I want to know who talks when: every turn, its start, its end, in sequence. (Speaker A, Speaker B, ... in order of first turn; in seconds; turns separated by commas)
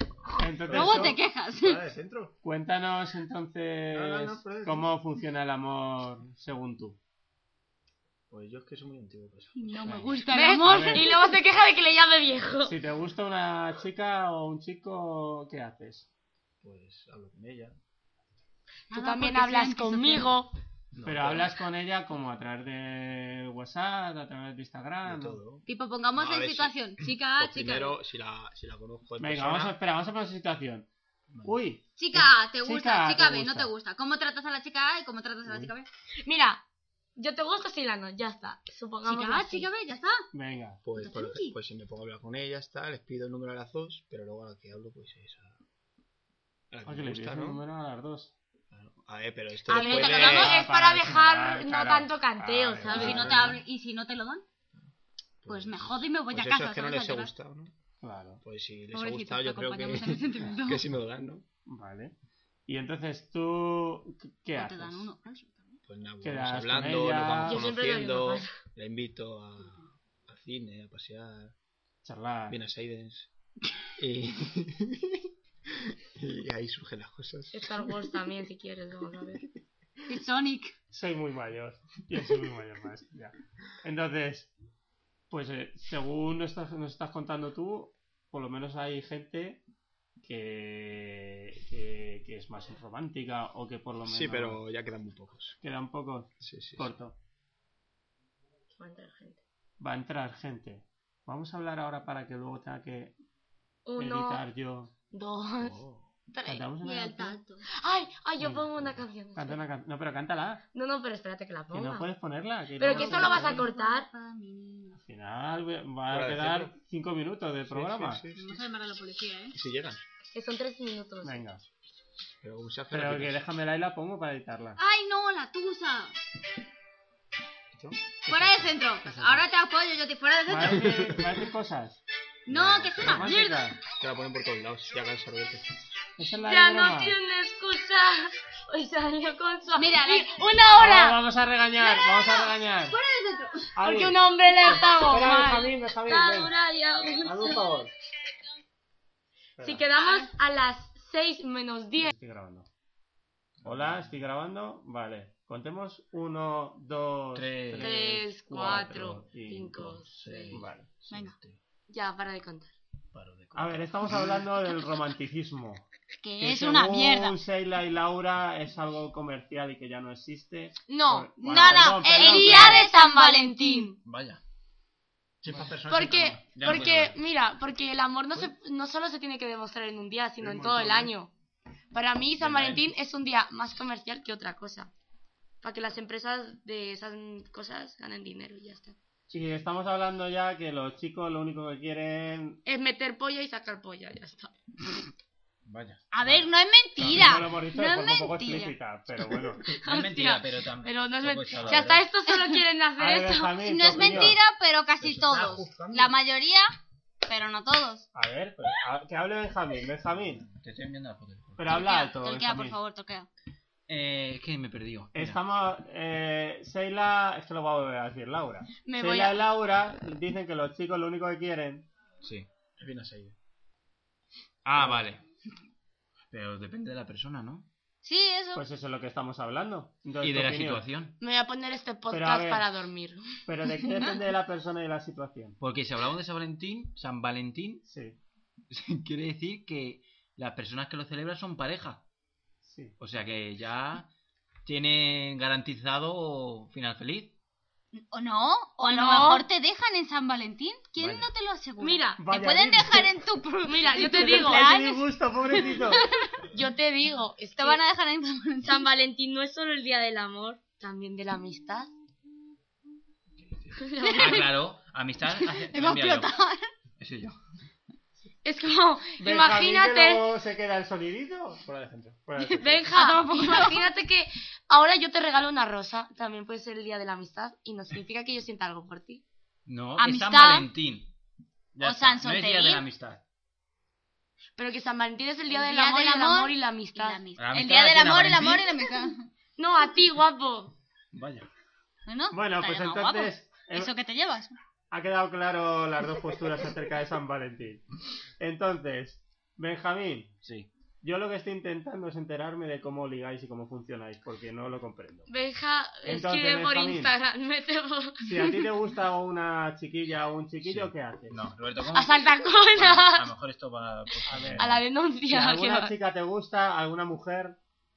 Speaker A: 0.4-1.2, Speaker B: 0.7-2.3, Speaker C: 0.7-1.8, Speaker A: 2.4-7.0, Speaker B: 3.9-4.9, Speaker B: 8.3-9.9, Speaker C: 9.6-11.2, Speaker A: 9.9-11.1, Speaker D: 10.3-12.7, Speaker A: 12.6-16.1, Speaker B: 16.6-17.8, Speaker C: 18.9-20.3, Speaker D: 18.9-20.5, Speaker B: 20.9-21.6, Speaker A: 21.1-25.4, Speaker B: 25.1-25.6, Speaker C: 25.7-28.0, Speaker B: 26.2-29.8, Speaker A: 29.2-30.9, Speaker B: 31.3-31.6, Speaker A: 31.4-33.7, Speaker C: 32.0-35.9, Speaker A: 35.5-35.7, Speaker D: 36.2-36.6, Speaker D: 37.2-39.7, Speaker C: 39.0-40.2, Speaker A: 40.3-40.8, Speaker B: 40.8-45.6, Speaker C: 41.0-41.5, Speaker B: 46.7-47.6, Speaker A: 46.9-48.3, Speaker B: 48.7-50.6, Speaker D: 49.7-53.3, Speaker C: 49.7-50.5, Speaker A: 50.0-53.6, Speaker C: 52.9-54.4, Speaker B: 53.0-53.6, Speaker B: 55.4-57.7, Speaker C: 55.5-57.3, Speaker A: 58.0-58.4, Speaker B: 58.4-61.4, Speaker C: 58.9-60.8, Speaker A: 61.7-62.1, Speaker A: 62.7-65.1, Speaker C: 64.5-65.8, Speaker B: 65.9-71.5, Speaker A: 66.2-67.7, Speaker D: 67.5-68.5, Speaker A: 72.0-72.6, Speaker B: 72.5-73.3, Speaker B: 74.0-75.2, Speaker B: 76.2-77.9, Speaker D: 77.5-79.4, Speaker C: 80.1-80.8, Speaker A: 80.9-84.5, Speaker A: 85.3-89.6, Speaker A: 90.2-94.6, Speaker B: 94.0-95.6, Speaker A: 95.6-97.2, Speaker B: 96.4-96.9, Speaker D: 98.7-99.4, Speaker A: 99.8-103.2, Speaker D: 103.9-104.4, Speaker A: 104.0-104.9, Speaker D: 105.1-106.7, Speaker B: 105.6-106.1, Speaker A: 106.5-107.4, Speaker C: 106.8-107.6, Speaker D: 107.7-109.6, Speaker A: 108.4-108.7, Speaker A: 109.3-110.6, Speaker D: 110.8-112.1, Speaker A: 111.7-113.6, Speaker D: 112.8-114.1, Speaker C: 112.8-115.0, Speaker A: 115.0-118.2, Speaker B: 116.1-116.7, Speaker B: 117.7-118.6, Speaker C: 118.3-119.6, Speaker B: 119.5-120.0, Speaker D: 120.3-121.5, Speaker A: 121.2-121.7, Speaker B: 122.4-123.4, Speaker A: 122.9-124.8, Speaker C: 124.8-126.2, Speaker B: 127.7-128.8, Speaker C: 128.3-131.1, Speaker A: 129.0-129.4, Speaker A: 130.5-132.0, Speaker B: 130.7-131.3, Speaker C: 132.5-133.7, Speaker B: 132.5-135.7, Speaker A: 132.9-133.8, Speaker A: 136.2-137.2, Speaker D: 136.4-141.2, Speaker C: 139.8-140.4, Speaker A: 140.8-143.0, Speaker C: 141.8-143.7, Speaker A: 143.8-146.5, Speaker D: 143.8-147.6, Speaker A: 147.2-147.9, Speaker A: 149.6-149.8, Speaker D: 149.6-152.1, Speaker C: 150.0-150.3, Speaker A: 152.0-152.7, Speaker B: 153.6-154.1, Speaker A: 153.7-159.9, Speaker E: 157.3-157.9, Speaker D: 157.8-160.5, Speaker B: 159.8-161.6, Speaker A: 160.5-160.9, Speaker C: 161.1-161.3, Speaker D: 161.9-162.7, Speaker E: 163.2-163.6, Speaker B: 163.2-164.2, Speaker A: 163.6-165.8, Speaker C: 166.2-167.4, Speaker A: 166.4-172.9, Speaker D: 170.9-174.0, Speaker C: 171.4-173.9, Speaker E: 174.0-174.4, Speaker B: 175.4-176.8, Speaker D: 175.9-181.3, Speaker E: 176.5-177.2, Speaker A: 180.4-181.1, Speaker D: 181.9-184.9, Speaker E: 182.4-182.8, Speaker D: 185.6-189.0, Speaker A: 189.3-192.6, Speaker D: 192.7-194.5, Speaker E: 195.7-196.4, Speaker C: 196.1-198.8, Speaker A: 197.0-199.7, Speaker D: 199.8-203.7, Speaker E: 199.8-202.1, Speaker C: 202.3-202.6, Speaker A: 203.0-204.4, Speaker C: 203.6-206.7, Speaker B: 205.0-206.1, Speaker C: 207.2-208.1, Speaker A: 208.1-210.4, Speaker E: 210.6-211.8, Speaker A: 211.6-212.8, Speaker C: 211.7-213.3, Speaker E: 213.9-215.4, Speaker A: 215.2-221.9, Speaker D: 218.8-219.4, Speaker B: 222.8-223.4, Speaker E: 224.7-225.2, Speaker E: 226.3-227.7, Speaker C: 228.0-228.6, Speaker A: 228.6-230.9, Speaker E: 230.2-231.2, Speaker D: 231.2-233.2, Speaker A: 232.1-232.7, Speaker A: 233.5-235.6, Speaker E: 235.6-237.8, Speaker A: 237.9-238.2, Speaker E: 238.7-242.0, Speaker A: 242.6-243.0, Speaker E: 243.0-244.1, Speaker E: 244.7-247.3, Speaker C: 248.0-256.3, Speaker D: 248.8-249.4, Speaker E: 251.0-251.3, Speaker D: 251.8-252.2, Speaker A: 252.2-253.2, Speaker D: 253.7-254.7, Speaker A: 254.0-256.0, Speaker D: 256.5-257.8, Speaker C: 257.6-258.9, Speaker D: 258.6-261.9, Speaker D: 263.8-264.5, Speaker C: 264.0-264.4, Speaker E: 264.1-266.3, Speaker C: 265.2-266.7, Speaker E: 267.0-267.4, Speaker D: 268.4-270.2, Speaker A: 269.2-272.9, Speaker D: 272.4-279.2, Speaker C: 272.9-273.8, Speaker E: 279.7-281.1, Speaker C: 280.0-280.7, Speaker E: 281.8-283.2, Speaker C: 281.8-282.8, Speaker D: 284.6-287.2, Speaker C: 285.5-289.3, Speaker E: 287.4-288.6, Speaker D: 289.6-290.8, Speaker E: 291.1-291.5, Speaker C: 292.1-294.6, Speaker A: 292.3-293.9, Speaker A: 294.9-297.8, Speaker A: 298.4-300.4, Speaker E: 300.4-300.7, Speaker A: 301.0-305.3, Speaker D: 305.3-308.6, Speaker A: 306.1-307.1, Speaker A: 308.2-311.4, Speaker E: 310.6-312.2, Speaker D: 311.9-313.3, Speaker E: 312.7-314.8, Speaker A: 314.3-314.7, Speaker D: 314.6-315.9, Speaker A: 315.3-317.6